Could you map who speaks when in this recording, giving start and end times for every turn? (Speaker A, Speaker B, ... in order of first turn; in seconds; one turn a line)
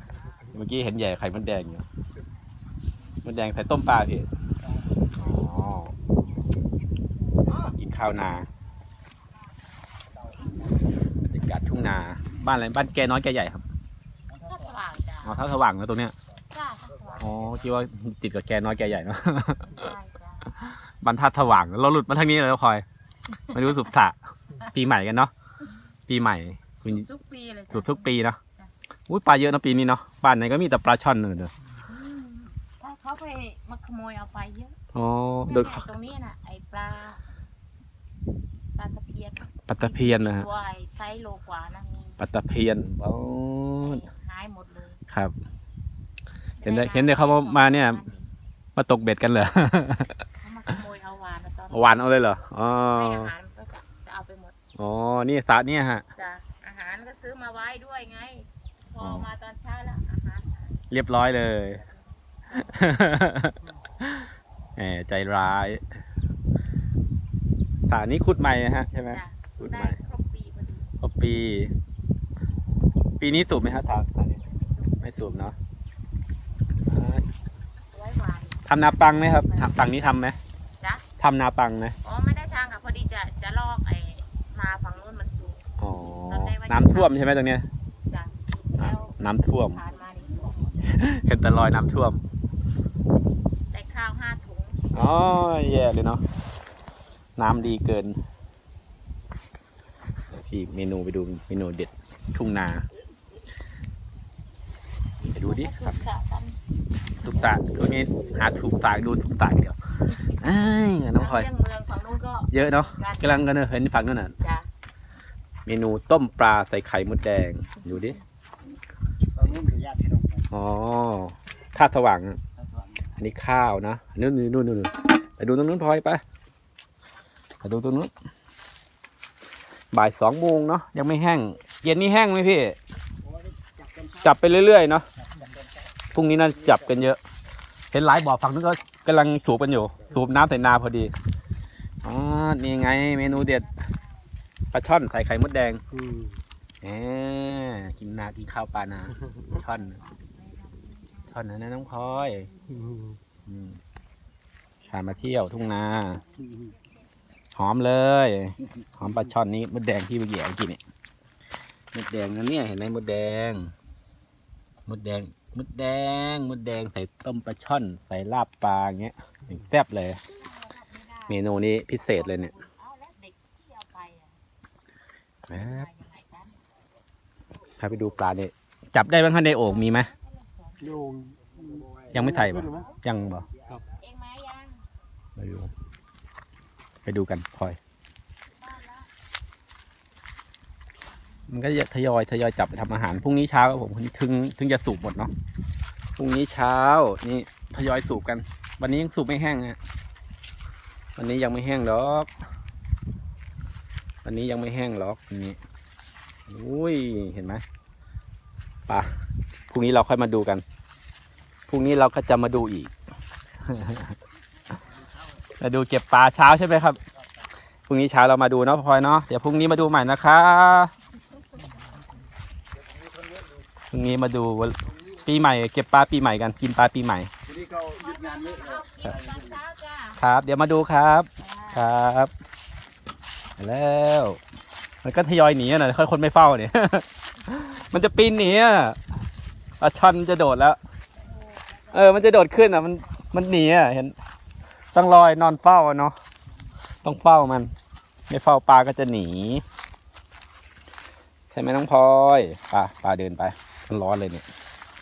Speaker A: 0.5-1.8
Speaker A: 3.2-4.3
Speaker A: 5.2-5.9
Speaker A: 7.5-8.5
Speaker A: 11.2-13.7
Speaker B: 14.4-15.5
Speaker A: 15.2-16.1
Speaker B: 16.5-17.5
Speaker A: 17.2-19.9
Speaker B: 19.6-20.6
Speaker A: 20.6-22.9
Speaker A: 23.5-25.3
Speaker A: 26.1-27.1
Speaker B: 26.8-28.7
Speaker A: 27.7-28.4
Speaker A: 29.1-31.5
Speaker B: 31.9-34.8
Speaker A: 34.9-35.9
Speaker B: 35.5-37.2
Speaker B: 38.8-42.2
Speaker A: 39.7-40.5
Speaker A: 42.2-44.0
Speaker B: 43.8-45.0
Speaker B: 46.6-48.3
Speaker A: 46.6-48.0
Speaker A: 48.8-50.2
Speaker B: 50.4-52.3
Speaker A: 51.7-53.3
Speaker B: 52.9-54.5
Speaker A: 54.8-56.0
Speaker B: 56.2-60.7
Speaker A: 59.0-59.3
Speaker A: 60.9-61.8
Speaker A: 62.5-65.8
Speaker A: 67.9-70.0
Speaker B: 69.1-70.9
Speaker A: 71.0-71.7
Speaker A: 73.2-74.4
Speaker B: 74.5-75.0
Speaker A: 75.0-75.5
Speaker A: 76.9-77.2
Speaker B: 77.9-80.0
Speaker A: 78.7-80.4
Speaker B: 80.8-81.1
Speaker A: 81.2-82.0
Speaker B: 82.0-85.7
Speaker A: 85.8-87.7
Speaker B: 86.3-87.2
Speaker B: 88.1-90.8
Speaker A: 88.8-89.8
Speaker A: 90.8-92.2
Speaker B: 93.7-95.0
Speaker A: 94.9-96.2
Speaker A: 97.4-98.2
Speaker A: 100.3-102.9
Speaker B: 105.2-106.6
Speaker A: 105.3-106.0
Speaker A: 107.2-111.5
Speaker B: 111.2-113.5
Speaker A: 112.5-114.3
Speaker B: 114.4-114.7
Speaker A: 115.7-118.2
Speaker C: 119.5-120.4
Speaker A: 120.5-122.4
Speaker A: 123.2-126.2
Speaker A: 127.6-128.1
Speaker A: 129.9-132.8
Speaker C: 133.7-134.1
Speaker A: 134.2-135.1
Speaker A: 136.1-137.2
Speaker A: 137.9-141.1
Speaker A: 142.0-143.7
Speaker B: 143.3-143.9
Speaker A: 144.7-145.8
Speaker A: 146.8-150.0
Speaker B: 149.7-153.1
Speaker A: 151.3-152.5
Speaker A: 153.5-153.8
Speaker B: 154.8-155.8
Speaker A: 154.9-156.2
Speaker A: 157.6-160.8
Speaker A: 161.9-163.7
Speaker A: 164.9-170.2
Speaker B: 170.2-174.4
Speaker A: 171.3-172.5
Speaker B: 175.5-176.6
Speaker A: 175.5-175.9
Speaker A: 177.8-180.1
Speaker B: 179.6-181.3
Speaker C: 181.3-182.1
Speaker A: 182.1-183.5
Speaker B: 182.7-183.0
Speaker B: 183.9-184.8
Speaker A: 185.4-185.7
Speaker A: 187.1-187.8
Speaker B: 188.6-189.1
Speaker A: 191.5-195.3
Speaker A: 196.2-199.8
Speaker A: 201.2-202.3
Speaker A: 204.2-205.6
Speaker A: 206.5-207.6
Speaker A: 209.7-210.6
Speaker A: 211.7-212.9
Speaker A: 213.7-214.2
Speaker A: 215.6-217.0
Speaker A: 217.9-220.9
Speaker A: 223.9-227.3
Speaker C: 227.6-227.8
Speaker B: 227.8-230.2
Speaker A: 230.2-232.3
Speaker B: 231.4-231.9
Speaker A: 233.6-234.4
Speaker A: 235.0-239.0
Speaker A: 239.8-240.8
Speaker B: 241.2-242.6
Speaker A: 241.9-244.2
Speaker A: 244.9-246.2
Speaker A: 247.0-247.7
Speaker A: 248.3-249.7
Speaker A: 251.5-254.5